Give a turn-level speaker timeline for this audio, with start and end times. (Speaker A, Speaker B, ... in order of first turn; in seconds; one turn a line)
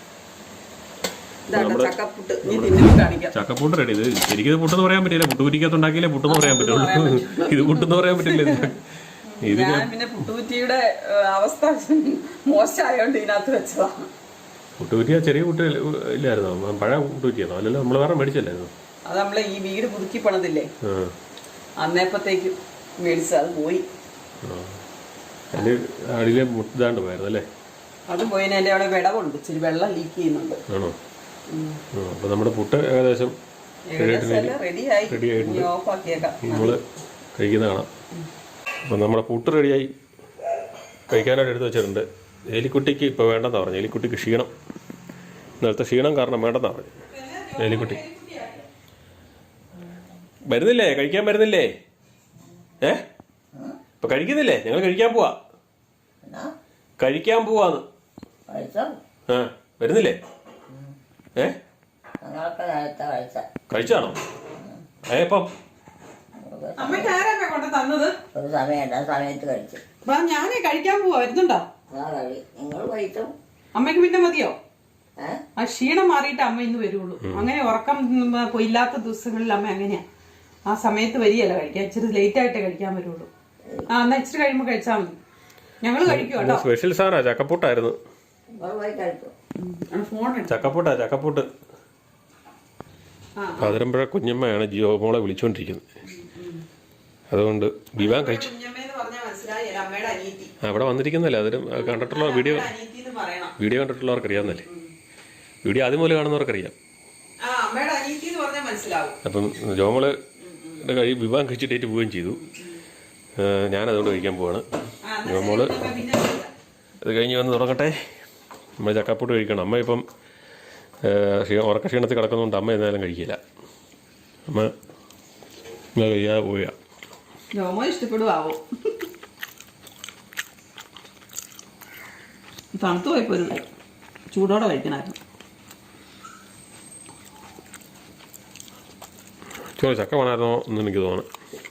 Speaker A: 1.5-3.3
Speaker B: 1.5-1.9
Speaker B: 2.4-8.8
Speaker A: 6.3-8.7
Speaker A: 9.3-14.1
Speaker B: 9.4-9.9
Speaker B: 14.8-18.7
Speaker A: 19.1-20.7
Speaker B: 20.8-21.1
Speaker A: 21.8-23.8
Speaker B: 24.4-24.8
Speaker B: 25.5-27.4
Speaker A: 28.1-30.6
Speaker B: 30.7-30.9
Speaker A: 31.5-31.8
Speaker B: 31.9-33.3
Speaker A: 33.9-36.8
Speaker B: 34.0-34.5
Speaker B: 35.1-35.7
Speaker B: 36.4-36.8
Speaker B: 37.3-37.9
Speaker B: 38.9-39.9
Speaker B: 41.1-44.5
Speaker B: 45.6-46.9
Speaker A: 47.1-48.7
Speaker B: 47.6-48.0
Speaker B: 50.5-51.7
Speaker C: 53.5-53.8
Speaker B: 54.0-55.4
Speaker C: 56.2-56.5
Speaker B: 57.0-57.8
Speaker C: 58.5-59.0
Speaker B: 59.3-60.2
Speaker C: 60.7-60.9
Speaker C: 62.2-63.5
Speaker B: 63.7-64.2
Speaker B: 65.1-65.5
Speaker C: 66.4-67.1
Speaker A: 66.8-68.2
Speaker C: 68.3-69.8
Speaker A: 70.0-71.6
Speaker C: 71.9-73.3
Speaker A: 73.8-74.6
Speaker A: 75.6-80.0
Speaker A: 80.7-83.3
Speaker A: 83.9-85.1
Speaker A: 85.8-86.6
Speaker B: 86.0-88.0
Speaker C: 88.5-89.3
Speaker A: 89.6-90.7
Speaker B: 90.5-91.5
Speaker A: 93.4-93.8
Speaker B: 93.6-95.8
Speaker A: 96.1-96.6
Speaker B: 97.3-98.5
Speaker A: 98.0-100.5
Speaker B: 100.6-102.7
Speaker A: 101.8-103.5
Speaker B: 103.6-104.6
Speaker A: 104.3-104.9
Speaker B: 105.6-106.7
Speaker A: 107.4-109.2
Speaker B: 109.2-110.1
Speaker A: 110.4-110.8
Speaker B: 110.8-112.4
Speaker B: 113.4-114.6
Speaker A: 115.0-116.5
Speaker B: 115.2-115.9
Speaker B: 117.0-118.0
Speaker B: 118.8-120.0
Speaker B: 121.0-123.4
Speaker B: 124.5-124.7
Speaker B: 126.0-126.7
Speaker A: 127.5-128.6
Speaker A: 132.7-133.6
Speaker A: 134.3-135.2
Speaker B: 139.8-141.3